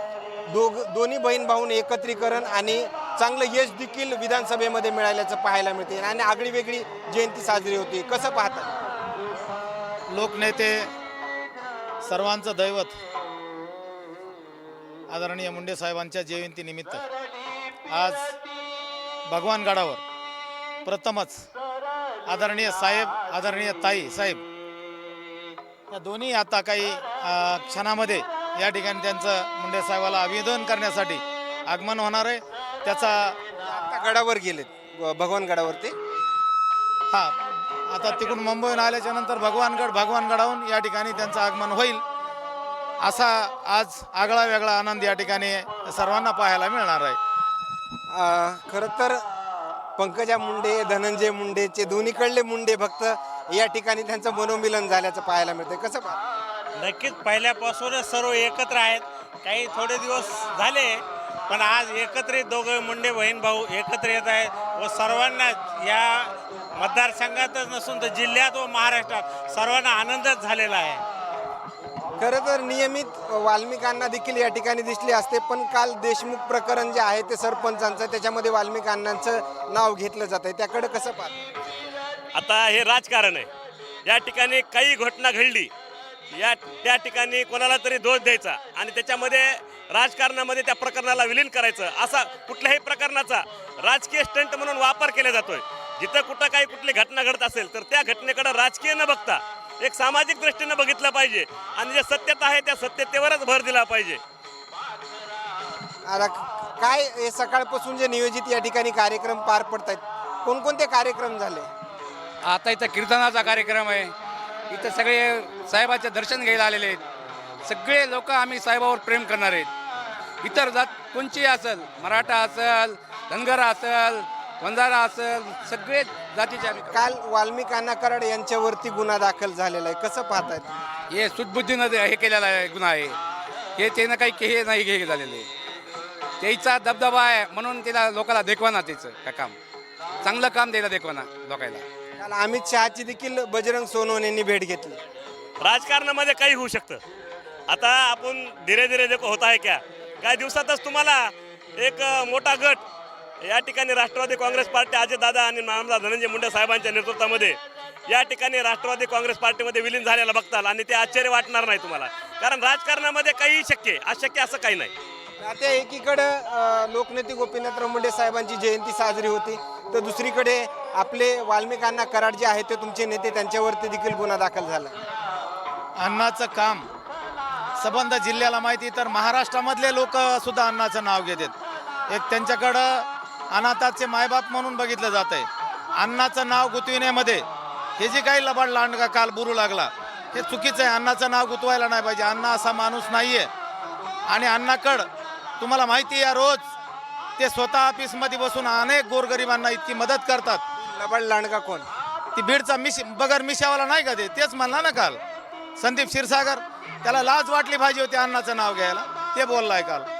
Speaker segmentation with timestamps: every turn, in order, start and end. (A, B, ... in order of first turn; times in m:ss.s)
0:00.5-0:08.7 A
0:10.1-0:10.9 B
0:12.0-0:12.9 B
0:15.1-0:17.0 B
0:17.9-0:18.3 B
0:19.3-0:20.0 B
0:20.8-0:21.4 B
0:22.3-0:24.4 B
0:25.9-0:33.4 B
0:33.6-0:35.9 A
0:37.9-0:42.0 B
0:43.0-0:47.2 B
0:48.1-0:49.2 A
0:50.0-0:56.2 A
0:56.8-1:11.0 C
1:12.2-1:21.4 A
1:22.3-1:23.5 D
1:24.0-1:25.7 D
1:26.3-1:44.2 D
1:46.0-1:51.7 A
1:52.4-1:54.1 E
1:54.7-1:57.0 E
1:57.6-1:59.7 E
2:00.4-2:07.0 E
2:06.8-2:10.7 A
2:11.1-2:13.2 E
2:13.8-2:15.5 E
2:16.4-2:19.6 E
2:20.2-2:21.8 E
2:22.2-2:25.0 A
2:25.6-2:27.0 D
2:27.7-2:32.8 D
2:33.4-2:37.6 D
2:38.1-2:44.9 D
2:45.4-2:55.0 A
2:56.0-2:56.8 B
2:57.8-3:01.5 B
3:02.1-3:07.4 B
3:08.0-3:13.5 B
3:14.3-3:15.0 B
3:15.6-3:16.7 B
3:17.4-3:20.6 B
3:20.8-3:21.8 A
3:22.3-3:25.2 B
3:25.8-3:30.1 B